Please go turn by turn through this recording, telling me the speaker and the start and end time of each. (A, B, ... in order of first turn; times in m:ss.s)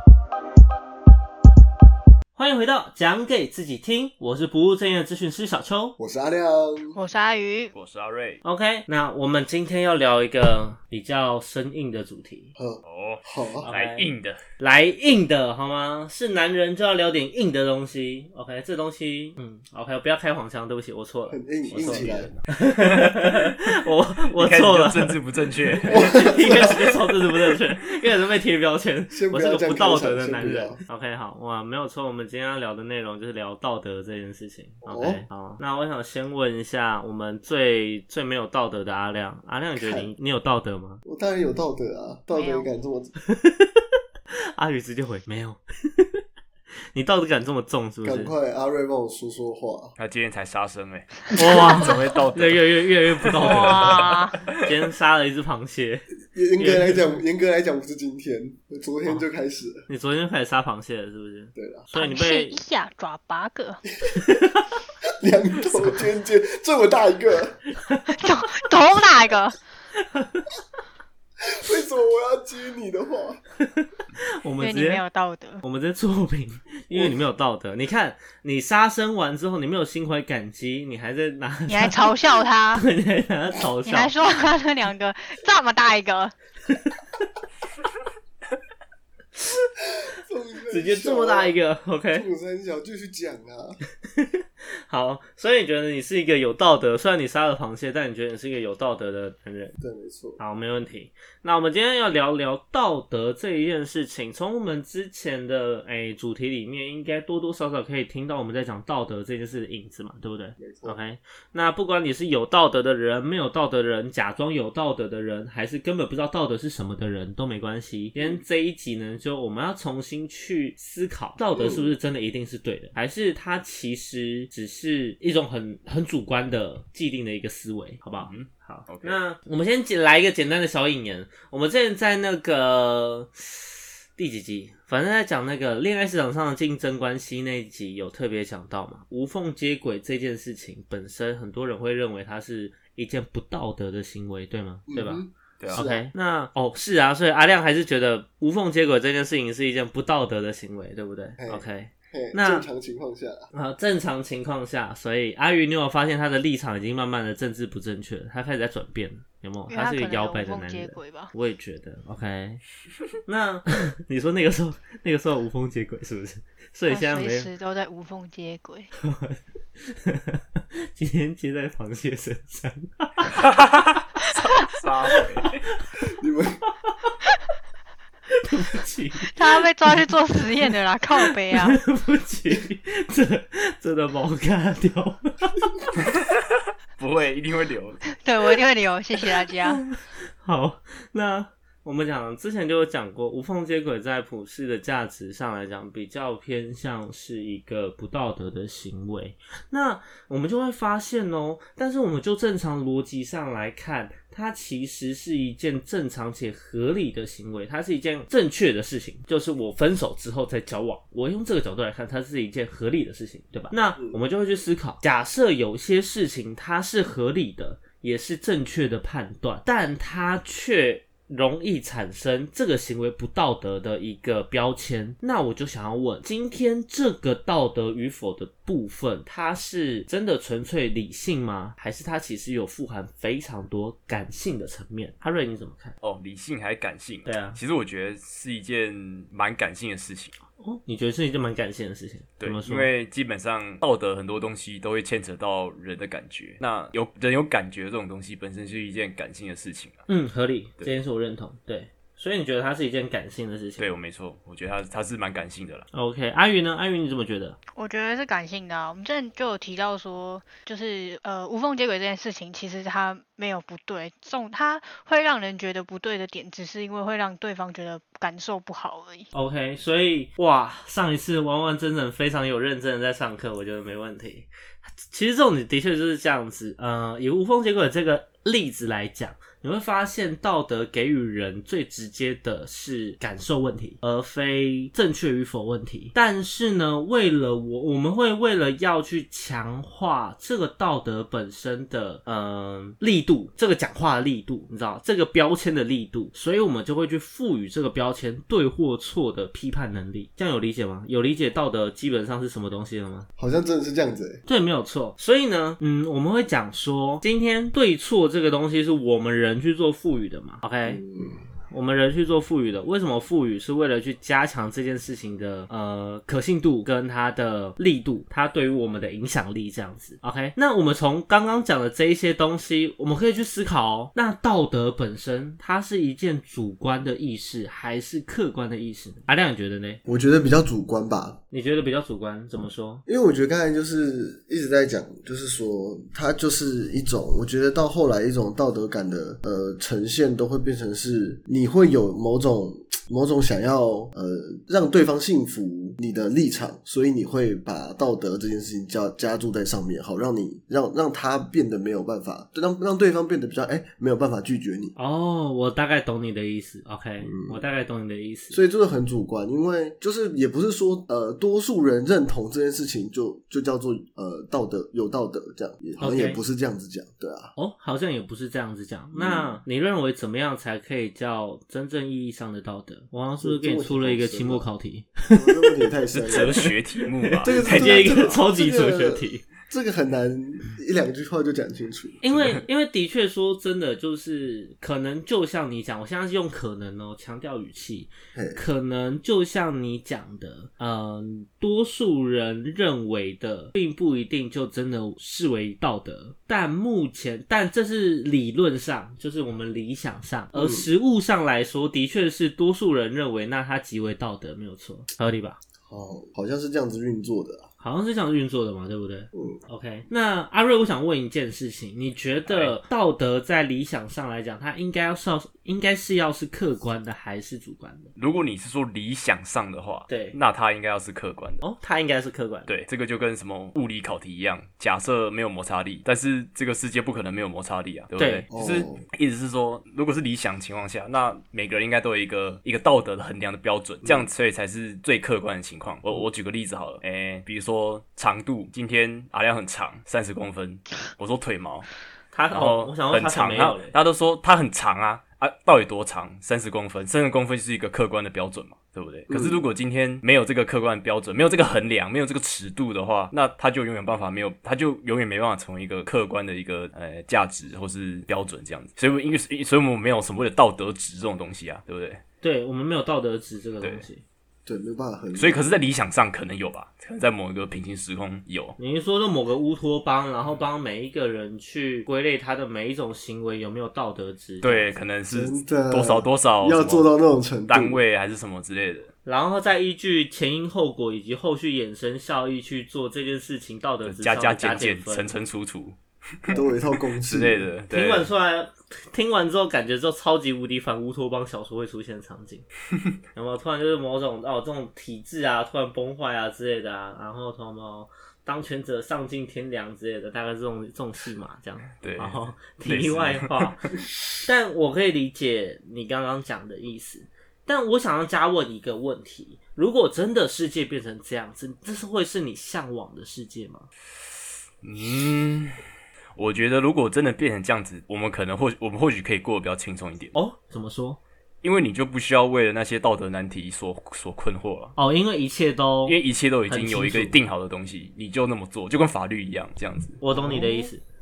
0:02.4-0:06.0 A
0:06.0-0:07.0 B
0:06.9-0:07.7 C
0:07.7-0:08.4 D
0:08.4-0:12.5 A
0:12.6-0:13.7 B
0:12.8-0:14.4 D
0:13.6-0:25.2 A
0:21.3-0:22.3 B
0:21.7-0:23.5 D
0:24.4-0:26.2 D
0:25.9-0:26.8 B
0:25.9-0:41.0 A
0:29.1-0:30.8 B
0:34.9-0:35.2 B
0:39.8-0:40.1 B
0:41.1-0:43.1 B
0:42.3-0:42.7 C
0:43.3-0:43.9 A
0:44.6-0:46.2 A
0:46.9-0:48.3 A
0:48.0-0:49.9 B
0:50.0-0:52.7 D
0:51.4-0:57.1 A
0:53.3-0:53.9 D
0:53.4-0:54.5 C
0:56.3-0:59.8 B
0:59.9-1:02.6 A
1:01.6-1:01.8 B
1:01.9-1:03.8 C
1:04.1-1:04.7 A
1:05.2-1:07.6 B
1:07.8-1:08.2 A
1:08.1-1:09.6 C
1:10.0-1:10.5 A
1:11.4-1:13.4 B
1:13.7-1:15.0 A
1:14.6-1:15.6 C
1:15.6-1:22.1 A
1:16.9-1:17.2 B
1:21.7-1:22.9 C
1:22.7-1:24.2 A
1:23.9-1:26.3 C
1:30.0-1:31.6 B
1:30.7-1:32.3 A
1:32.1-1:33.8 B
1:34.1-1:39.8 A
1:39.8-1:40.4 B
1:40.4-2:25.2 A
1:50.6-1:51.0 B
2:01.6-2:01.9 B
2:08.2-2:09.2 D
2:24.9-2:26.1 B
2:25.6-2:25.9 D
2:25.7-2:32.7 A
2:31.4-2:33.5 B
2:33.5-2:42.6 A
2:39.7-2:41.3 C
2:43.3-2:47.5 A
2:46.9-2:48.9 C
2:49.0-2:53.4 A
2:53.4-2:55.6 D
2:56.1-2:56.6 B
2:56.9-2:57.1 A
2:58.3-3:00.1 A
2:59.3-3:01.8 C
3:01.2-3:05.7 A
3:06.0-3:08.0 D
3:08.2-3:09.8 C
3:09.6-3:56.0 A
3:56.0-4:00.3 D
3:57.2-3:57.6 A
4:00.6-4:02.9 A
4:02.4-4:10.0 D
4:10.1-4:13.9 A
4:13.8-4:15.8 D
4:15.9-4:17.6 A
4:17.8-4:29.3 C
4:29.3-4:34.5 A
4:35.0-5:03.3 A
5:03.4-5:04.4 B
5:04.5-5:11.0 A
5:10.9-5:11.4 B
5:11.7-5:30.0 A
5:30.1-5:31.4 B
5:31.5-5:33.0 A
5:33.1-5:54.9 B
5:55.0-5:58.6 A
5:57.2-5:57.6 B
5:58.5-6:07.5 B
6:06.0-6:06.4 A
6:07.6-6:15.8 A
6:09.2-6:09.6 B
6:13.4-6:14.7 B
6:15.3-6:16.7 B
6:16.1-6:18.5 D
6:16.3-6:16.7 A
6:17.2-6:19.4 A
6:17.4-6:22.3 B
6:22.2-6:45.6 A
6:28.4-6:28.6 B
6:40.5-6:40.9 B
6:45.9-6:47.7 B
6:47.8-6:58.1 A
6:52.5-6:52.7 D
6:58.2-7:01.6 D
7:00.1-7:00.4 A
7:01.6-7:02.7 A
7:02.7-7:21.9 D
7:08.2-7:08.4 A
7:08.5-7:09.0 B
7:22.3-7:24.0 A
7:22.5-7:42.2 D
7:29.3-7:29.6 B
7:42.4-7:44.2 A
7:44.7-7:45.6 B
7:45.4-7:48.8 D
7:48.8-7:55.0 A
7:54.6-7:57.1 D
7:55.3-7:58.0 B
7:57.7-7:59.1 D
7:59.2-8:05.3 A
8:04.0-8:08.3 D
8:06.5-8:07.7 B
8:07.9-8:12.7 A
8:13.4-8:33.9 A
8:22.0-8:23.7 D
8:34.8-8:35.8 D
8:36.4-8:40.3 D
8:40.3-8:41.2 A
8:41.6-8:45.0 D
8:45.0-8:47.4 A
8:46.1-8:50.2 D
8:50.2-8:51.0 A